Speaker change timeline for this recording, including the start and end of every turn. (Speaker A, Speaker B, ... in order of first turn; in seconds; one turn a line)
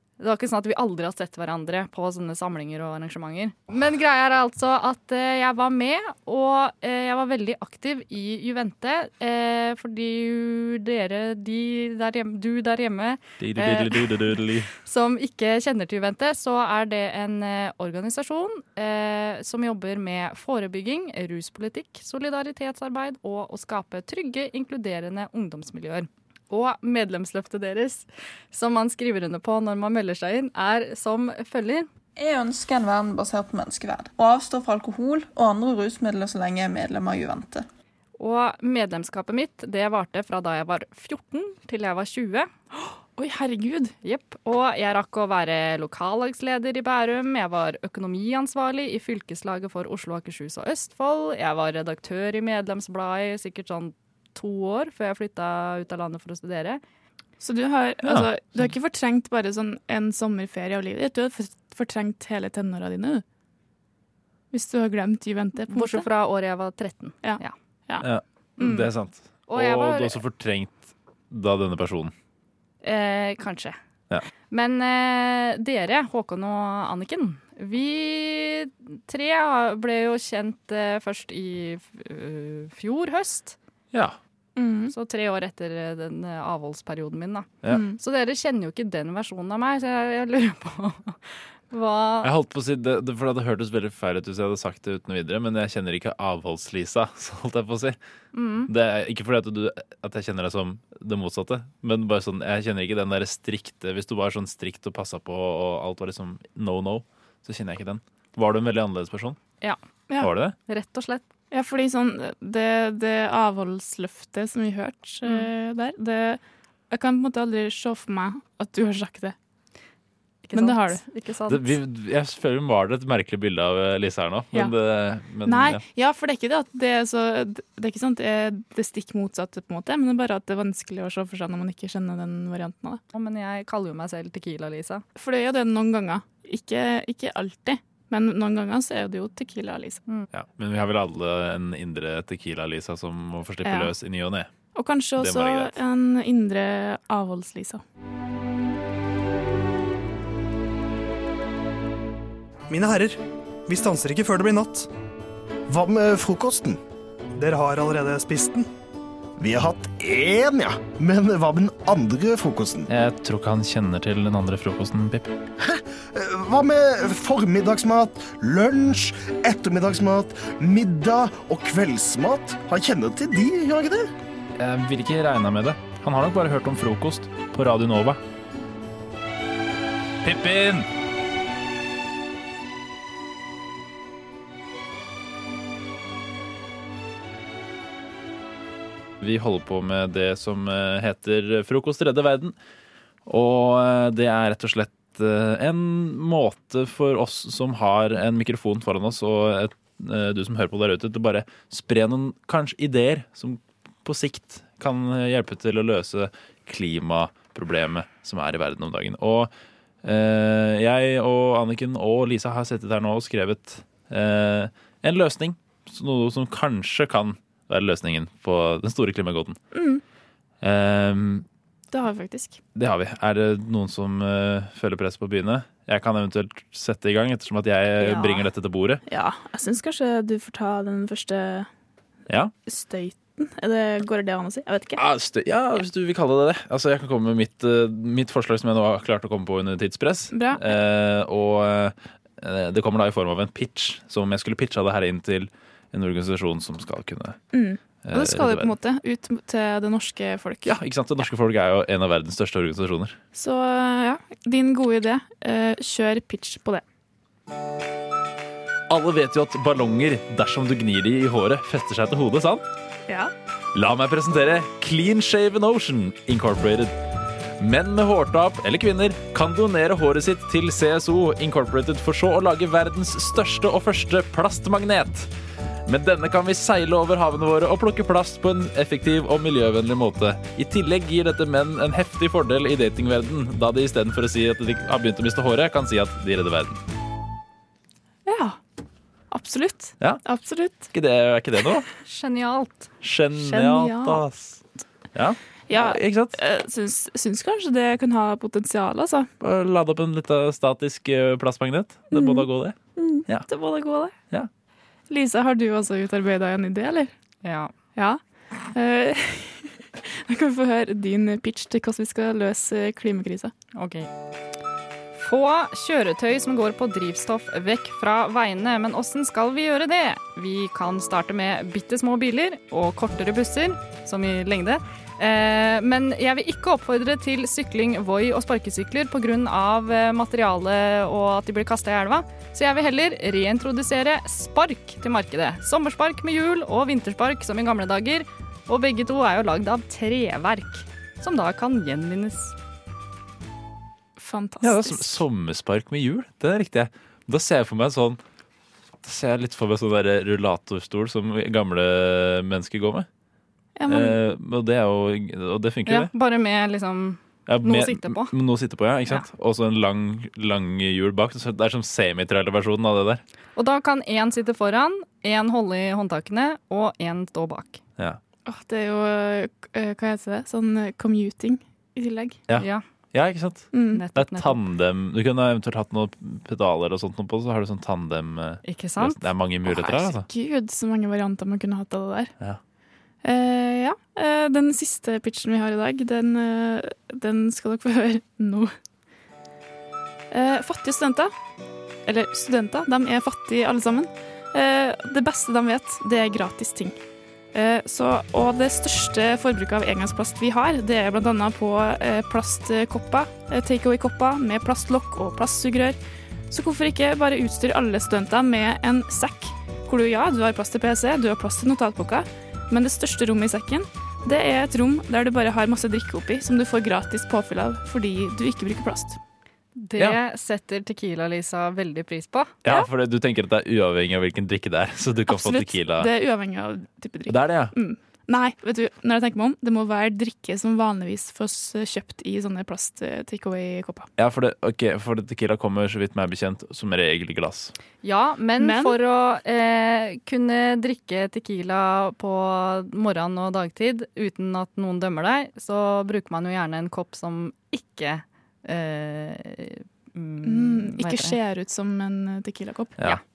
Speaker A: 0.2-31.9
Speaker B: 13.4-14.7
Speaker C: 32.2-37.6
Speaker A: 38.2-42.5
Speaker D: 43.1-44.0
Speaker A: 44.0-56.8
Speaker D: 57.4-63.2
Speaker D: 64.5-66.0
Speaker A: 65.7-67.5
Speaker D: 67.2-68.0
Speaker B: 68.0-72.1
Speaker D: 68.6-68.9
Speaker A: 69.5-70.2
Speaker A: 72.8-73.8
Speaker A: 74.5-83.6
Speaker D: 84.5-84.9
Speaker A: 84.9-92.3
Speaker D: 87.7-88.0
Speaker B: 92.2-98.0
Speaker A: 98.3-98.7
Speaker B: 98.7-109.4
Speaker B: 110.2-110.5
Speaker A: 110.7-111.3
Speaker D: 111.5-119.3
Speaker A: 120.5-121.8
Speaker D: 120.5-121.0
Speaker B: 121.5-125.8
Speaker D: 125.5-133.0
Speaker A: 133.1-135.0
Speaker D: 135.2-140.0
Speaker B: 140.3-144.5
Speaker D: 143.6-143.9
Speaker D: 144.7-147.8
Speaker B: 145.2-145.7
Speaker E: 152.7-154.9
Speaker F: 155.7-156.8
Speaker E: 157.4-158.7
Speaker F: 159.4-162.9
Speaker B: 162.9-165.3
Speaker F: 165.6-174.1
Speaker B: 174.6-178.2
Speaker B: 180.2-180.9
Speaker B: 189.2-192.6
Speaker B: 193.2-209.5
Speaker B: 210.0-219.6
Speaker D: 219.7-220.0
Speaker B: 220.6-221.4
Speaker D: 221.9-222.6
Speaker B: 222.7-229.0
Speaker D: 228.0-228.4
Speaker D: 229.1-231.7
Speaker D: 232.6-235.0
Speaker B: 235.0-247.4
Speaker D: 240.3-240.8
Speaker D: 247.5-250.7
Speaker B: 248.1-248.7
Speaker B: 250.6-253.2
Speaker D: 253.3-256.8
Speaker B: 258.9-262.6
Speaker B: 263.7-267.0
Speaker B: 267.6-275.3
Speaker B: 275.9-286.8
Speaker D: 288.2-288.6
Speaker D: 289.3-290.9
Speaker B: 290.9-291.8
Speaker A: 292.0-292.9
Speaker B: 293.0-294.3
Speaker D: 293.3-294.4
Speaker B: 295.1-296.3
Speaker D: 295.7-299.3
Speaker B: 299.4-302.8
Speaker D: 302.1-302.4
Speaker D: 303.0-304.2
Speaker D: 305.1-307.1
Speaker A: 307.4-307.7
Speaker D: 307.9-308.2
Speaker D: 308.7-313.5
Speaker A: 313.7-314.1
Speaker A: 315.1-342.5
Speaker D: 344.2-345.1
Speaker B: 344.6-348.2
Speaker B: 349.0-353.1
Speaker D: 353.8-354.2
Speaker B: 353.9-356.1
Speaker A: 355.9-358.3
Speaker B: 357.4-363.2
Speaker A: 363.6-367.8
Speaker D: 368.4-372.4
Speaker B: 372.5-380.2
Speaker A: 372.5-372.8
Speaker D: 373.7-374.0
Speaker A: 373.9-374.6
Speaker A: 378.6-380.1
Speaker D: 379.7-382.3
Speaker D: 383.2-388.7
Speaker D: 390.3-391.3
Speaker D: 392.1-397.0
Speaker D: 397.5-406.0
Speaker D: 406.5-419.2
Speaker A: 419.8-422.6
Speaker B: 422.6-426.1
Speaker D: 425.3-434.1
Speaker B: 427.3-427.7
Speaker B: 434.2-437.7
Speaker A: 438.0-451.4
Speaker D: 438.6-438.9
Speaker D: 450.4-452.9